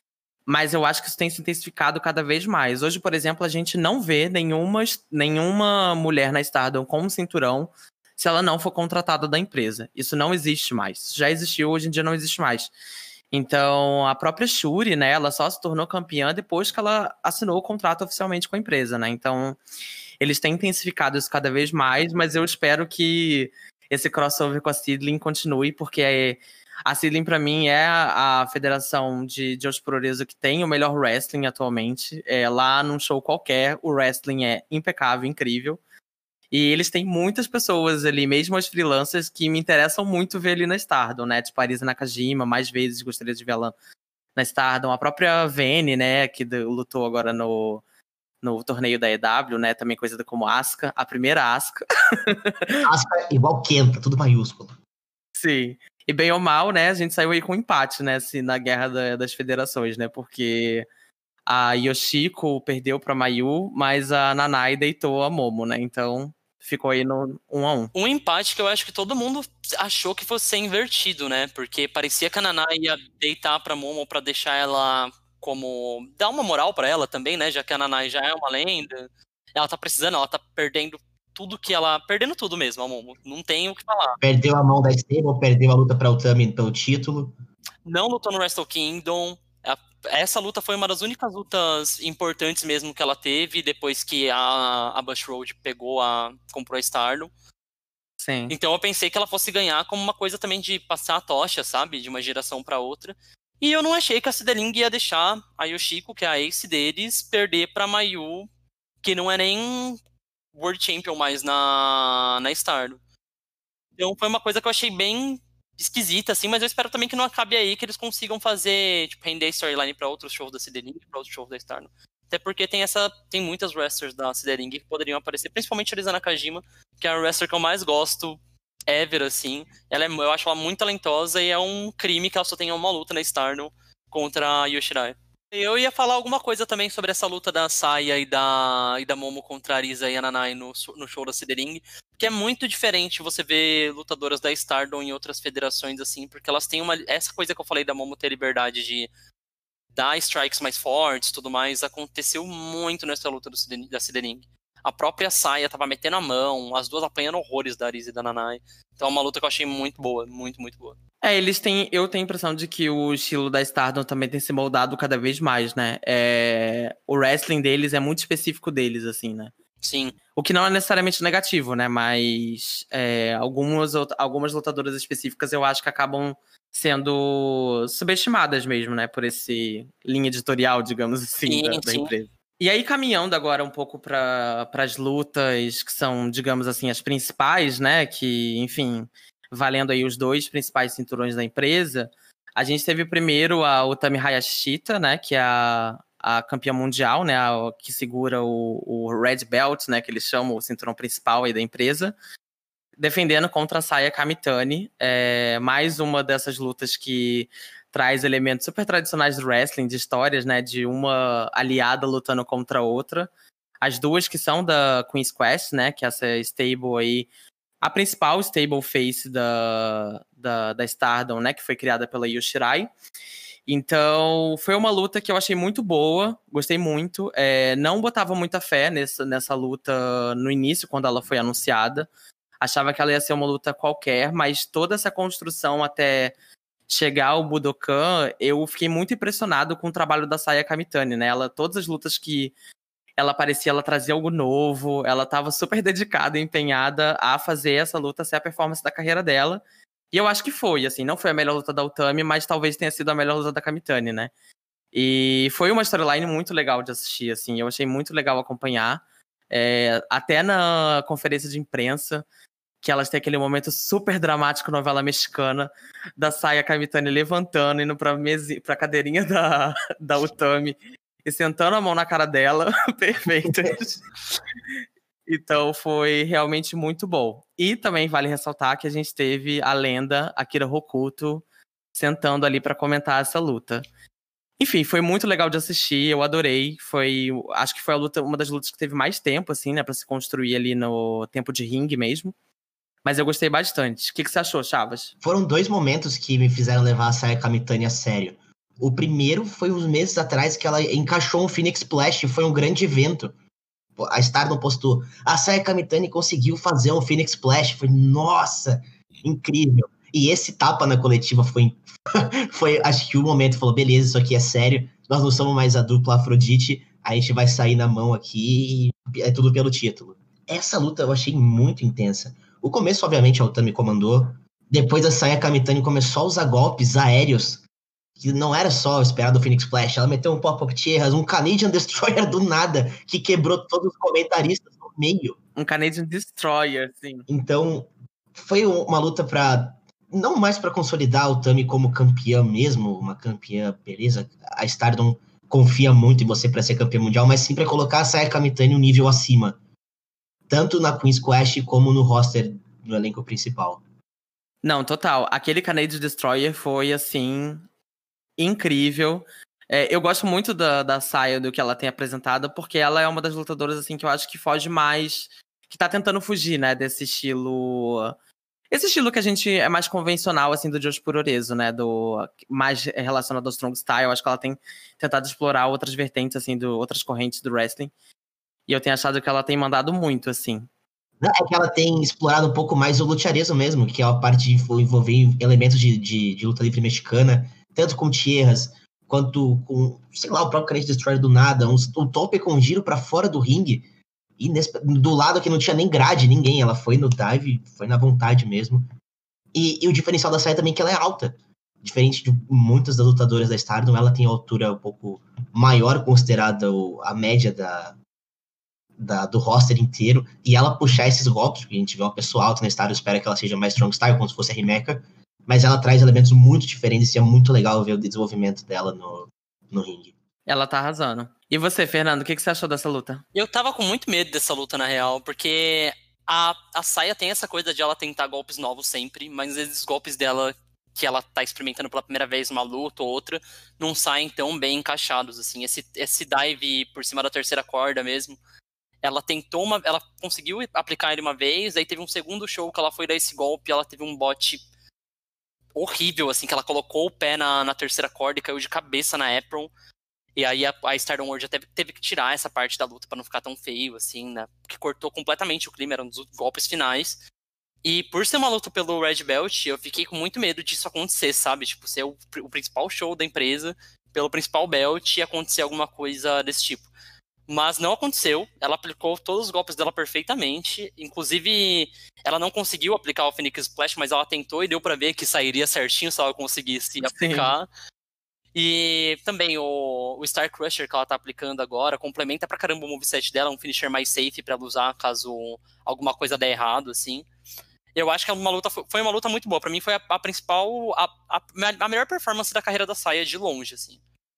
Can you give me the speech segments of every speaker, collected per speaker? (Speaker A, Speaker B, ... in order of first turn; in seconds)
Speaker A: 0.5-12.7, 13.3-19.6, 20.2-35.8, 36.5-43.7, 44.4-47.8, 48.4-52.8, 55.4-60.9, 61.5-67.9, 98.2-98.5, 161.2-169.5, 170.3-202.1, 203.0-213.3, 213.8-217.3, 217.8-222.9, 223.7-232.1, 232.6-236.3, 236.9-242.5, 243.2-254.3, 254.9-262.2, 262.8-274.0, 275.3-283.8, 284.6-292.3, 293.0-295.1, 335.6-337.2, 354.6-357.6, 358.4-368.1, 368.7-377.9, 378.7-380.7, 420.5-423.2, 477.1-477.5
Speaker B: 52.8-54.7, 84.2-87.3, 295.2-303.3, 304.0-327.6, 328.2-335.4, 337.3-349.6, 350.5-353.8, 381.2-393.8, 394.4-398.9, 399.5-407.9, 409.0-420.1
Speaker C: 67.9-84.2, 87.8-97.3, 98.5-108.5, 109.0-110.0, 110.5-113.0, 114.0-149.1, 149.9-161.0, 169.8-170.2, 181.4-182.1, 423.3-438.4, 439.0-444.6, 445.7-449.7, 450.4-457.2, 457.8-466.9, 467.5-477.7, 478.5-487.2, 487.9-494.0